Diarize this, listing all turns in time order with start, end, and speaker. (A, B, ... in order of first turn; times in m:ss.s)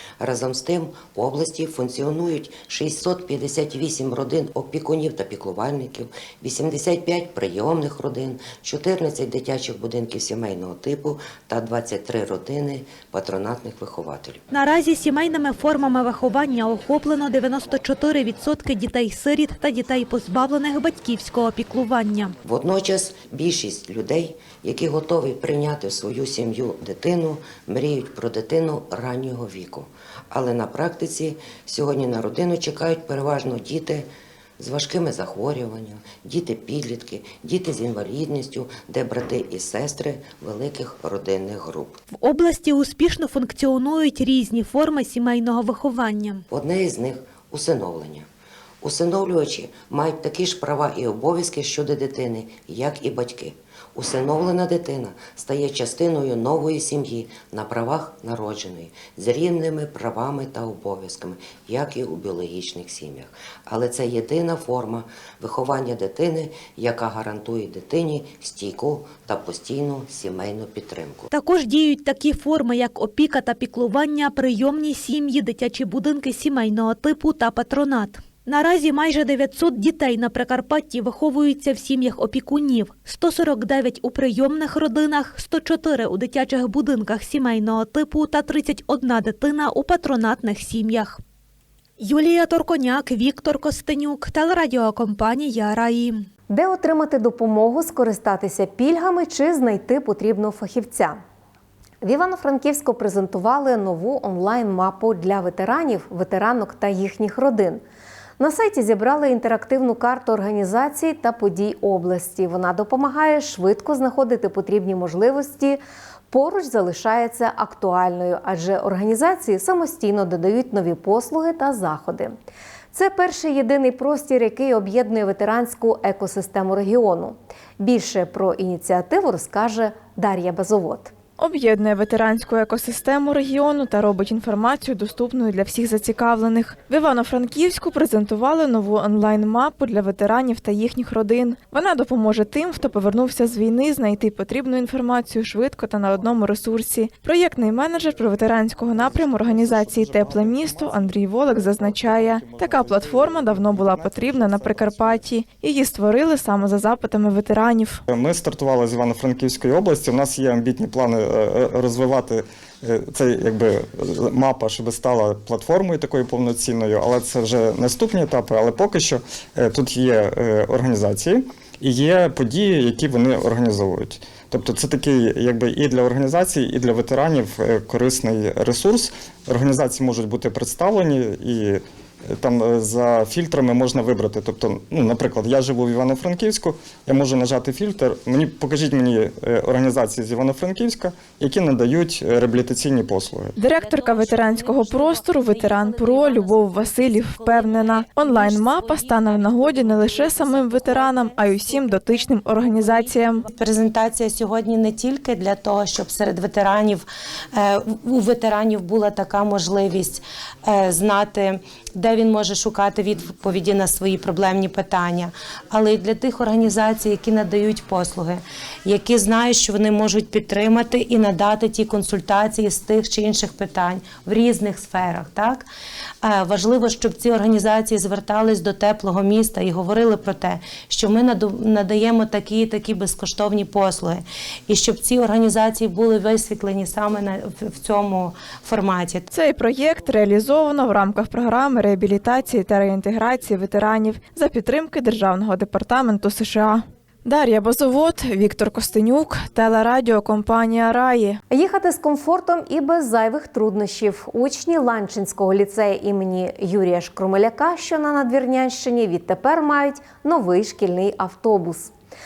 0:00.2-0:14.4 A
0:14.5-0:22.4 B
0:22.4-0:34.1 A
0:34.6-0:42.0 A
0:42.2-0:46.4 B
0:46.5-0:48.3 A
0:48.8-1:11.3 A
1:11.3-1:31.2 B
1:32.0-1:36.3 B
1:36.5-1:41.2 C
1:42.0-1:47.8 C
1:48.4-1:55.8 C
1:56.3-2:02.4 C
2:02.9-2:11.1 C
2:11.4-2:38.0 D
2:29.0-2:31.1 E
2:31.7-2:35.1 E
2:38.1-3:13.5 E
3:13.6-3:23.5 D
3:14.1-3:16.5 F
3:18.4-3:19.0 F
3:20.7-3:21.0 F
3:23.5-3:45.7 F
3:46.2-3:59.3 F
3:59.3-4:11.4 D
4:11.5-4:21.9 C